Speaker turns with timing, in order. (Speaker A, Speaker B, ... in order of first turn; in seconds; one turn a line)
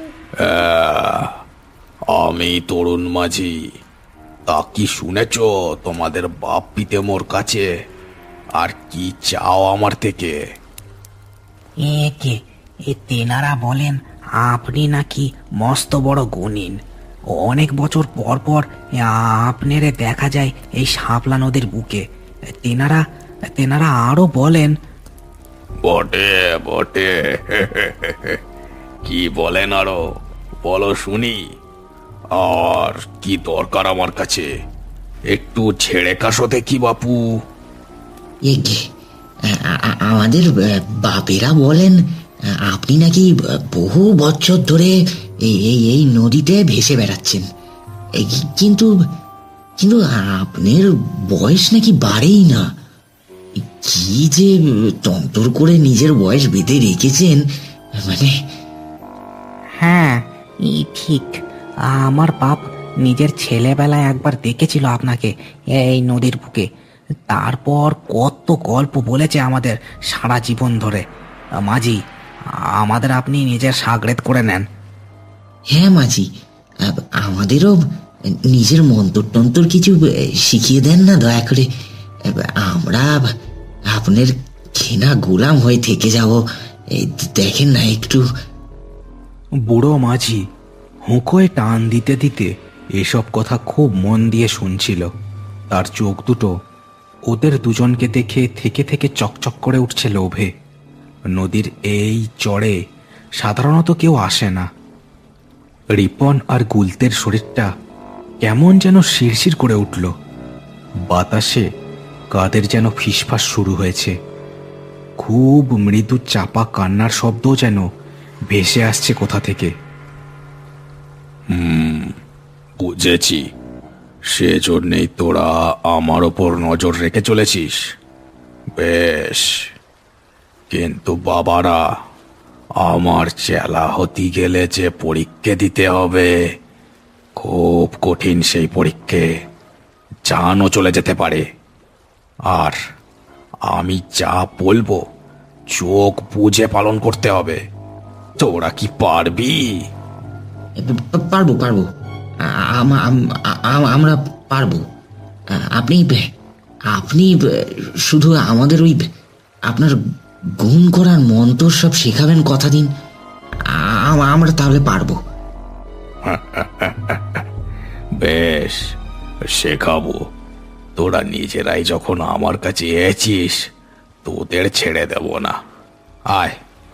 Speaker A: 0.4-1.4
Speaker A: 2.1-3.7
Speaker A: 4.5-7.7
Speaker A: 8.6-10.4
Speaker B: 11.8-16.8
Speaker B: 17.3-22.0
Speaker B: 22.6-24.7
Speaker A: 25.8-28.4
Speaker A: 29.0-31.5
Speaker A: 32.3-34.5
Speaker A: 35.3-37.3
Speaker C: 38.5-38.8
Speaker C: 39.5-42.0
Speaker C: 42.7-47.4
Speaker C: 48.2-48.9
Speaker C: 49.8-52.7
Speaker C: 53.6-57.4
Speaker C: 58.0-58.3
Speaker B: 59.8-66.7
Speaker B: 67.3-71.0
Speaker B: 71.6-72.0
Speaker B: 72.7-74.7
Speaker C: 75.7-76.2
Speaker C: 76.8-77.8
Speaker C: 78.5-81.7
Speaker C: 82.2-83.3
Speaker C: 83.9-86.4
Speaker C: 86.9-88.2
Speaker D: 89.7-90.4
Speaker D: 91.1-95.1
Speaker D: 95.7-96.5
Speaker D: 97.3-100.5
Speaker D: 101.3-102.8
Speaker D: 103.4-104.7
Speaker D: 105.9-107.7
Speaker D: 108.4-110.1
Speaker D: 111.1-111.7
Speaker D: 112.3-114.1
Speaker D: 115.2-117.8
Speaker D: 118.5-119.7
Speaker A: 121.5-122.2
Speaker A: 122.8-123.4
Speaker A: 124.3-127.8
Speaker A: 128.8-129.6
Speaker A: 130.7-131.9
Speaker A: 132.8-136.3
Speaker A: 137.3-139.3
Speaker A: 140.3-141.4
Speaker A: 142.5-142.8
Speaker A: 143.7-145.0
Speaker A: 145.7-147.6
Speaker A: 148.4-149.6
Speaker C: 150.8-151.8
Speaker C: 152.7-154.8
Speaker C: 155.6-156.2
Speaker C: 156.9-157.3
Speaker C: 158.1-159.0
Speaker C: 159.7-159.9
Speaker C: 160.6-162.9
Speaker C: 163.7-165.2
Speaker A: 166.2-167.4
Speaker A: 168.2-168.8
Speaker A: 169.5-170.2
Speaker A: 170.9-173.6
Speaker A: 174.2-175.5